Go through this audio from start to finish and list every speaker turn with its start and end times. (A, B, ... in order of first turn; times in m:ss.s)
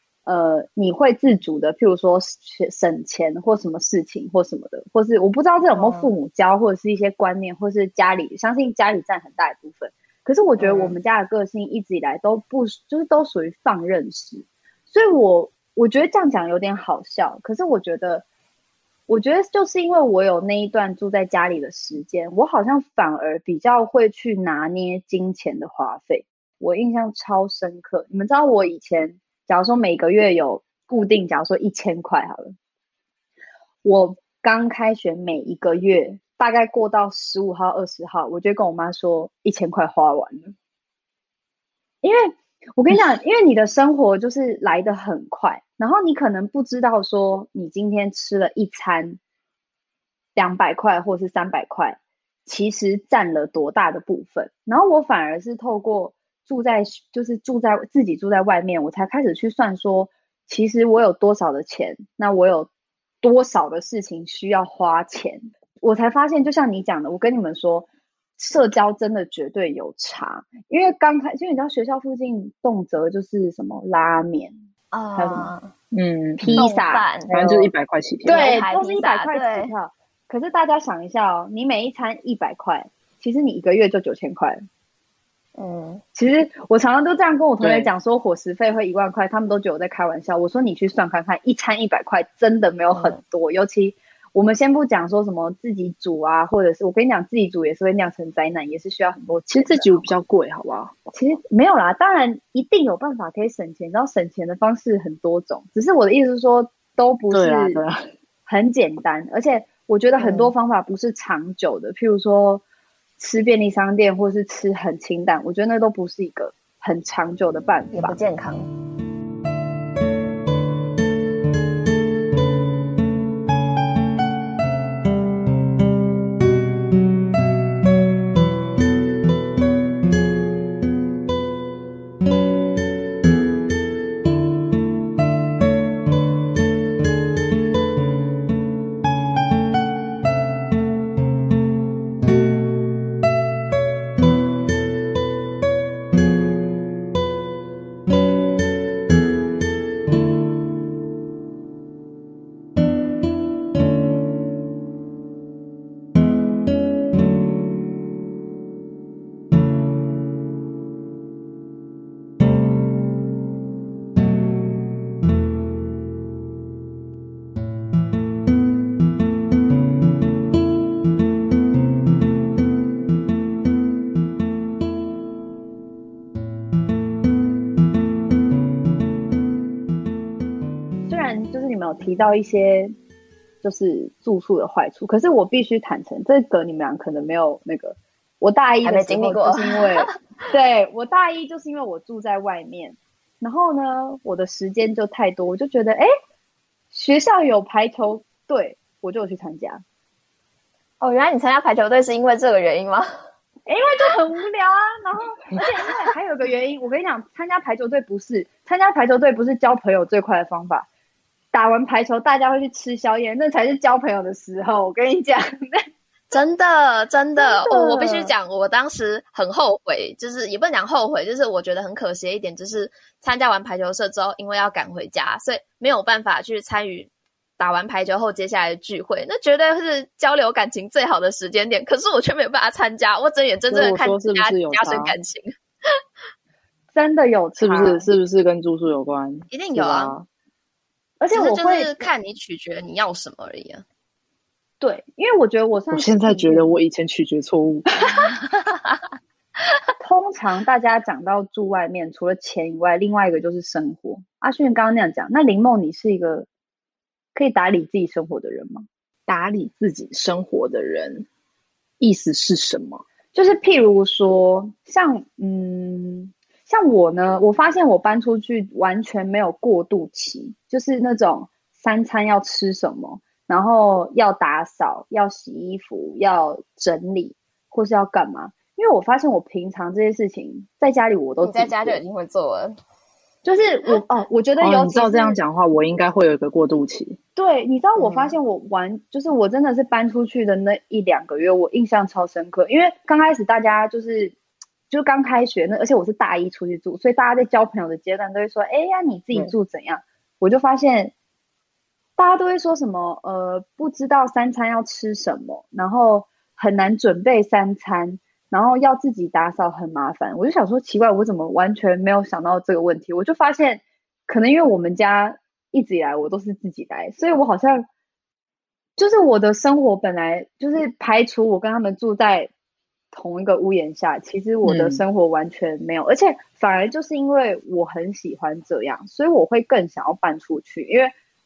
0:00.2-0:18.2 A
0:05.7-0:06.1 B
0:19.1-0:32.5 A
0:33.8-0:40.5 A
0:42.0-0:49.2 A
0:50.4-1:02.7 A
1:03.2-1:14.5 A
1:14.9-1:15.7 B
1:15.1-1:15.5 A
1:15.9-1:16.7 C
1:16.4-1:17.0 A
1:16.5-1:17.7 B
1:17.3-1:18.4 C
1:18.2-1:19.7 B
1:18.2-1:24.6 A
1:25.6-1:26.0 B
1:26.1-1:40.1 A
1:27.6-1:27.9 C
1:32.9-1:33.2 B
1:39.5-1:41.0 C
1:41.1-1:47.8 A
1:47.3-1:48.1 C
1:48.4-1:52.6 A
1:50.2-1:50.5 B
1:53.2-1:58.2 A
1:57.9-1:58.7 B
3:01.1-3:02.9 A
3:03.6-3:16.1 A
3:08.8-3:10.1 B
3:16.9-3:19.8 A
3:21.0-3:23.1 B
3:23.7-3:30.9 A
3:31.5-3:35.8 A
3:36.3-3:55.9 B
3:37.4-3:38.3 A
3:53.7-3:55.1 C
3:56.9-3:58.1 A
3:57.6-4:00.2 C
3:59.5-4:00.1 B
4:01.2-4:02.0 A
4:01.3-4:03.8 B
4:04.8-4:06.7 A
4:05.9-4:07.9 C
4:10.0-4:16.5 A
4:17.3-4:18.8 A
4:19.3-4:21.3 C
4:22.0-4:23.0 C
4:23.3-4:42.0 A
4:41.4-4:42.8 B
4:43.4-4:45.4 A
4:44.6-4:47.2 C
4:47.4-4:54.3 A
4:48.0-4:48.3 B
4:54.9-5:01.1 A
5:02.2-5:17.9 A
5:19.0-5:22.5 A
5:23.1-5:31.1 A
5:24.6-5:25.0 C